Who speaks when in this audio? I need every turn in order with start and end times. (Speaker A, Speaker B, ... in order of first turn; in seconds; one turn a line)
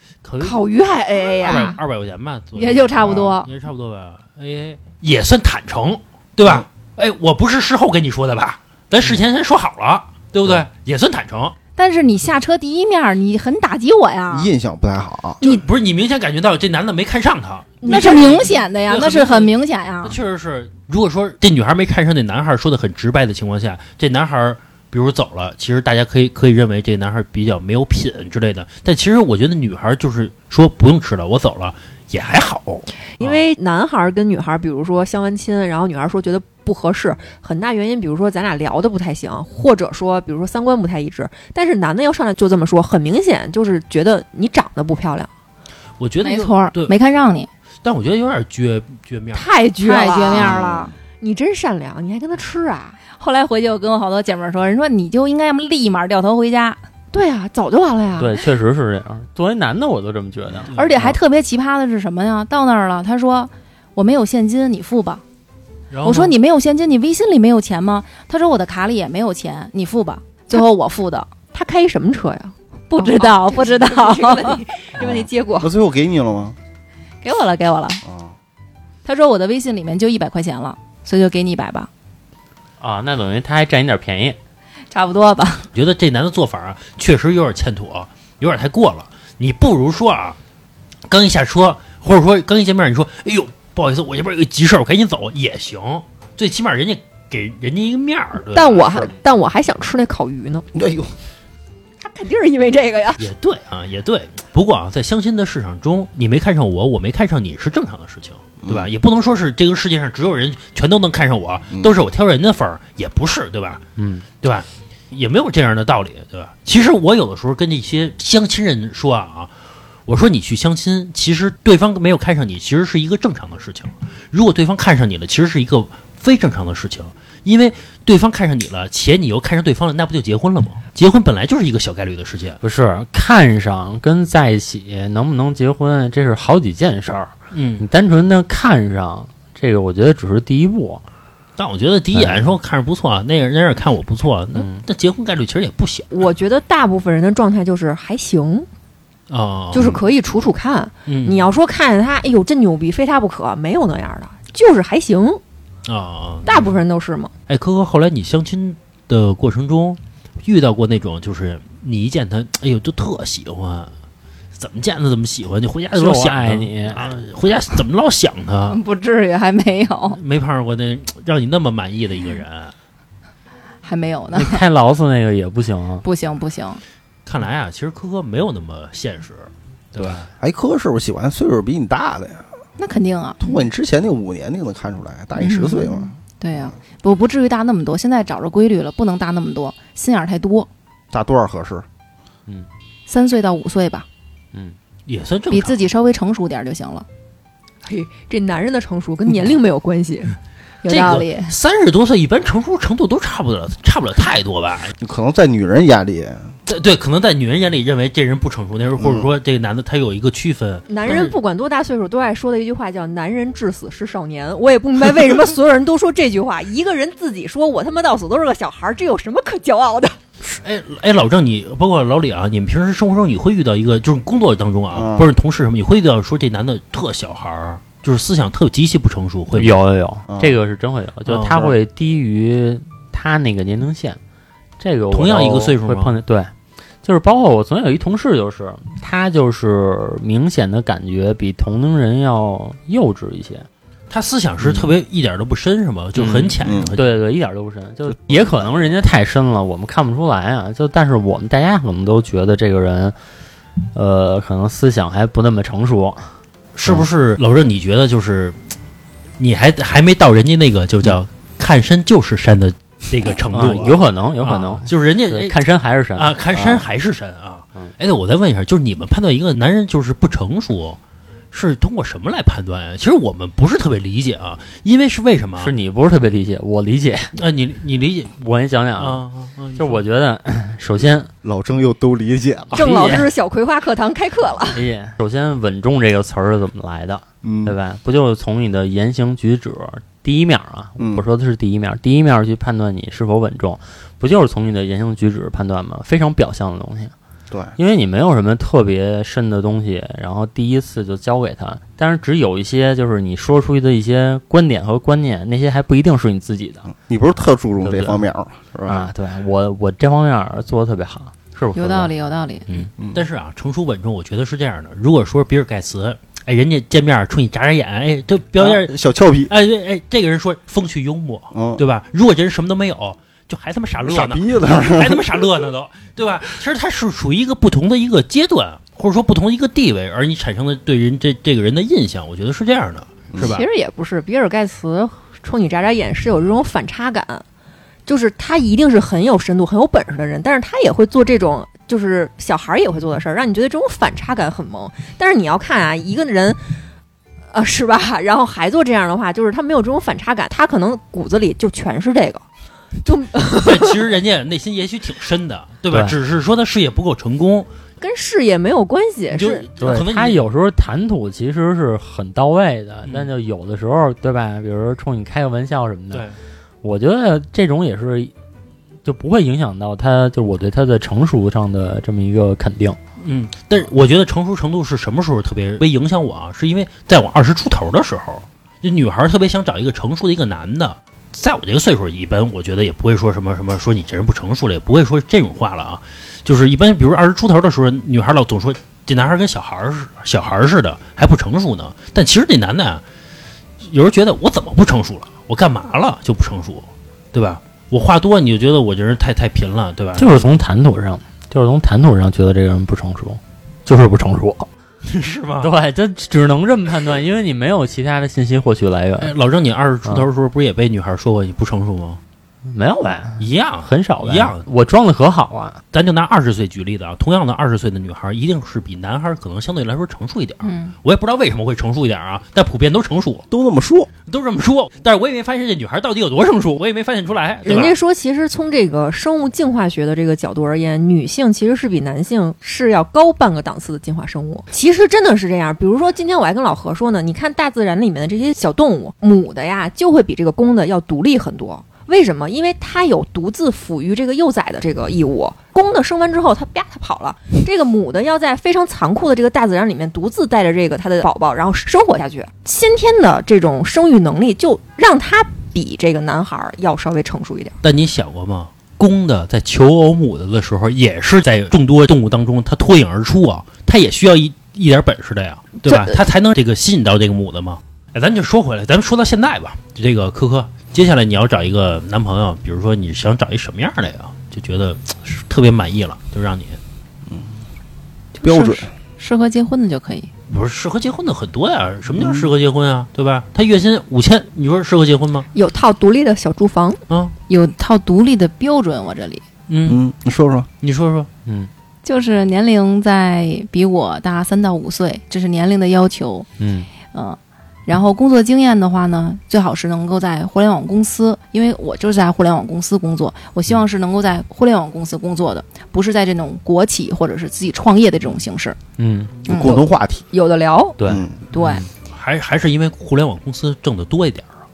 Speaker A: 0.2-0.6
Speaker B: 0.4-1.8
Speaker A: 1.4-11.6
Speaker C: 1.5-1.8
Speaker C: 2.6-3.5
Speaker C: 11.8-14.5
Speaker D: 14.3-15.4
Speaker A: 15.4-33.4
Speaker B: 17.8-18.4
Speaker C: 17.8-20.2
Speaker B: 33.2-45.3
Speaker A: 46.0-46.9
Speaker C: 46.2-47.5
Speaker A: 47.8-49.5
Speaker B: 49.3-50.6
Speaker C: 49.8-50.9
Speaker D: 50.4-50.9
Speaker B: 51.2-53.0
Speaker C: 53.1-56.8
Speaker B: 57.1-58.4
Speaker E: 58.2-61.2
Speaker A: 60.7-61.0
Speaker C: 60.7-65.2
Speaker A: 65.9-66.3
Speaker C: 66.0-71.3
Speaker B: 71.5-75.7
Speaker C: 72.9-74.6
Speaker D: 75.0-76.6
Speaker C: 77.2-78.0
Speaker D: 78.0-78.3
Speaker C: 79.0-81.9
Speaker E: 82.8-84.4
Speaker C: 84.9-85.7
Speaker A: 85.7-90.4
Speaker A: 91.1-99.1
Speaker B: 98.5-100.7
Speaker D: 100.7-101.1
Speaker B: 102.0-103.2
Speaker A: 103.2-113.8
Speaker D: 108.6-108.9
Speaker E: 114.0-114.3
Speaker A: 114.4-119.5
Speaker A: 120.1-132.6
Speaker E: 132.6-141.0
Speaker A: 137.5-137.9
Speaker A: 141.6-146.3
Speaker E: 142.1-142.5
Speaker E: 144.6-144.8
Speaker B: 146.1-148.7
Speaker A: 149.3-150.0
Speaker B: 149.7-155.4
Speaker A: 151.1-151.5
Speaker A: 155.9-156.8
Speaker B: 156.4-157.3
Speaker A: 157.5-163.9
Speaker A: 164.5-168.8
Speaker E: 165.9-167.2
Speaker C: 168.7-170.2
Speaker A: 170.1-172.7
Speaker C: 173.8-174.6
Speaker E: 174.3-176.0
Speaker C: 176.0-176.8
Speaker A: 177.3-180.3
Speaker D: 180.4-182.5
Speaker C: 182.8-183.6
Speaker D: 183.4-186.1
Speaker C: 185.4-190.7
Speaker D: 191.1-191.8
Speaker C: 193.1-194.1
Speaker A: 195.1-195.8
Speaker C: 195.5-197.1
Speaker B: 197.8-200.4
Speaker C: 200.8-201.5
Speaker A: 200.9-204.9
Speaker D: 205.0-206.5
Speaker A: 206.7-211.4
Speaker D: 209.0-209.3
Speaker B: 210.9-220.2
Speaker A: 220.4-229.8
Speaker D: 224.9-225.3
Speaker E: 229.5-234.2
Speaker D: 230.3-230.6
Speaker A: 231.3-231.8
Speaker E: 234.8-243.7
Speaker A: 235.1-236.2
Speaker A: 244.1-247.1
Speaker E: 244.6-244.9
Speaker E: 246.2-253.2
Speaker D: 246.6-246.9
Speaker D: 248.1-248.7
Speaker E: 253.9-256.4
Speaker A: 256.8-258.6
Speaker A: 259.4-265.6
Speaker E: 263.5-266.9
Speaker A: 266.1-271.0
Speaker A: 271.5-275.7
Speaker E: 275.6-277.3
Speaker A: 277.4-278.3
Speaker E: 278.4-279.2
Speaker A: 279.0-280.1
Speaker E: 279.8-281.3
Speaker D: 281.4-282.8
Speaker E: 282.7-283.3
Speaker B: 282.7-284.9
Speaker E: 284.7-297.1
Speaker D: 287.4-287.8
Speaker D: 291.0-291.2
Speaker D: 297.5-297.8
Speaker E: 297.8-306.9
Speaker D: 306.9-309.1
Speaker E: 307.8-308.2
Speaker E: 308.9-312.1
Speaker C: 311.8-312.7
Speaker A: 313.1-318.9
Speaker D: 318.6-319.5
Speaker A: 319.5-333.7
Speaker D: 321.5-321.8
Speaker D: 324.1-325.5
Speaker D: 333.3-333.6
Speaker B: 333.4-337.4
Speaker B: 338.1-346.8
Speaker B: 347.5-352.4
Speaker B: 353.0-354.0
Speaker A: 353.6-357.7
Speaker B: 358.0-359.7
Speaker A: 359.3-360.5
Speaker E: 359.8-366.3
Speaker A: 363.0-363.3
Speaker A: 366.1-366.4
Speaker E: 366.8-368.3
Speaker E: 369.0-373.0
Speaker A: 373.2-393.0
Speaker A: 393.8-400.5
Speaker E: 400.2-404.7
Speaker A: 405.0-405.7
Speaker E: 405.6-409.3
Speaker A: 409.2-412.2
Speaker E: 412.7-415.8
Speaker A: 413.4-414.7
Speaker A: 415.9-423.5
Speaker C: 420.6-420.9
Speaker D: 423.5-424.1
Speaker A: 424.3-428.0
Speaker B: 427.6-457.8
Speaker A: 457.8-476.8
Speaker B: 465.9-466.2
Speaker D: 477.3-477.6
Speaker C: 478.4-480.3
Speaker D: 478.4-478.9
Speaker A: 480.5-485.5
Speaker D: 482.2-482.5
Speaker B: 485.5-487.0
Speaker A: 487.1-487.3
Speaker C: 487.5-489.4
Speaker A: 489.7-490.0
Speaker D: 489.9-490.7
Speaker A: 490.8-491.3
Speaker C: 492.0-496.5
Speaker E: 496.6-496.9
Speaker C: 497.1-508.8
Speaker E: 509.0-509.4
Speaker D: 509.4-510.2
Speaker C: 509.5-509.8
Speaker B: 510.3-511.0
Speaker E: 511.0-511.9
Speaker D: 511.1-511.4
Speaker C: 511.5-511.8
Speaker A: 512.1-514.5